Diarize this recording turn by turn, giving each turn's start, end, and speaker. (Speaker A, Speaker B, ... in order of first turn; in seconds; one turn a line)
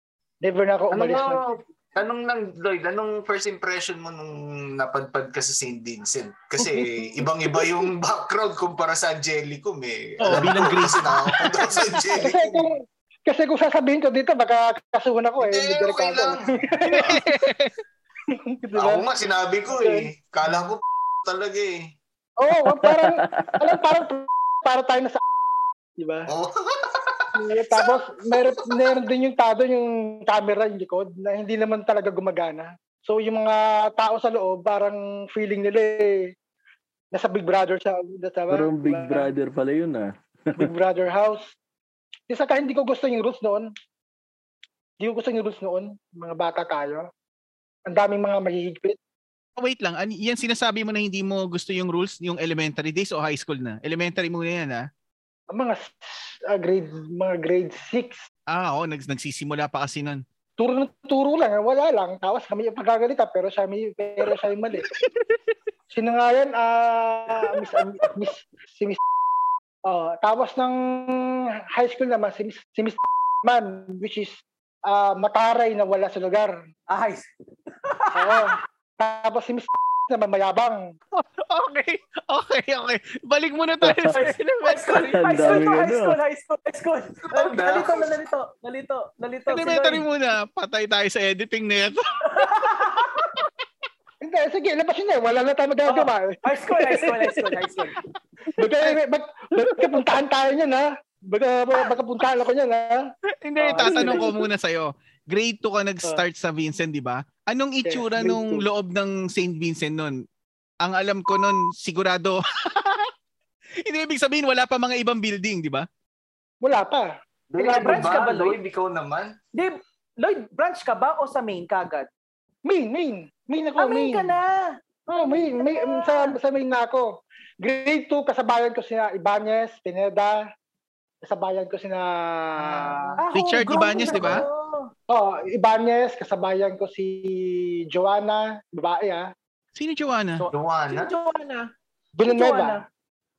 Speaker A: 0.4-1.4
Speaker B: 0.9-12.7
Speaker A: 6.6-7.6
Speaker C: 10.2-12.1
Speaker A: 12.2-17.2
Speaker B: 15.4-17.2
Speaker C: 16.8-17.8
Speaker A: 18.3-19.1
Speaker B: 18.7-21.8
Speaker A: 19.7-20.1
Speaker A: 22.4-25.2
Speaker D: 22.7-23.7
Speaker A: 26.0-26.3
Speaker B: 26.3-28.6
Speaker A: 27.3-36.3
Speaker A: 37.1-39.3
Speaker D: 38.5-40.7
Speaker A: 40.6-41.5
Speaker A: 42.3-43.7
Speaker A: 45.0-47.1
Speaker A: 47.9-49.0
Speaker C: 49.6-54.9
Speaker A: 55.5-58.2
Speaker C: 58.5-60.2
Speaker A: 60.6-64.9
Speaker A: 65.9-69.0
Speaker A: 69.9-76.5
Speaker E: 76.9-77.2
Speaker E: 77.8-78.6
Speaker A: 78.1-80.8
Speaker C: 81.1-85.7
Speaker D: 83.8-84.2
Speaker E: 84.1-90.0
Speaker D: 85.1-86.2
Speaker B: 87.3-88.1
Speaker C: 89.5-93.3
Speaker E: 92.3-93.1
Speaker A: 94.2-97.5
Speaker E: 95.8-98.0
Speaker A: 98.5-103.0
Speaker C: 103.4-110.2
Speaker A: 103.6-104.3
Speaker A: 107.8-108.7
Speaker C: 110.8-113.1
Speaker C: 113.8-115.8
Speaker A: 116.6-118.3
Speaker B: 117.5-119.3
Speaker E: 117.6-118.6
Speaker E: 119.5-122.1
Speaker A: 122.6-124.4
Speaker E: 123.8-126.3
Speaker A: 125.1-130.4
Speaker A: 131.2-133.2
Speaker E: 133.0-134.9
Speaker C: 133.3-134.4
Speaker A: 134.0-134.4
Speaker A: 135.1-139.3
Speaker C: 139.7-140.4
Speaker E: 140.4-141.7
Speaker B: 140.5-141.1
Speaker A: 142.2-142.8
Speaker E: 142.2-142.8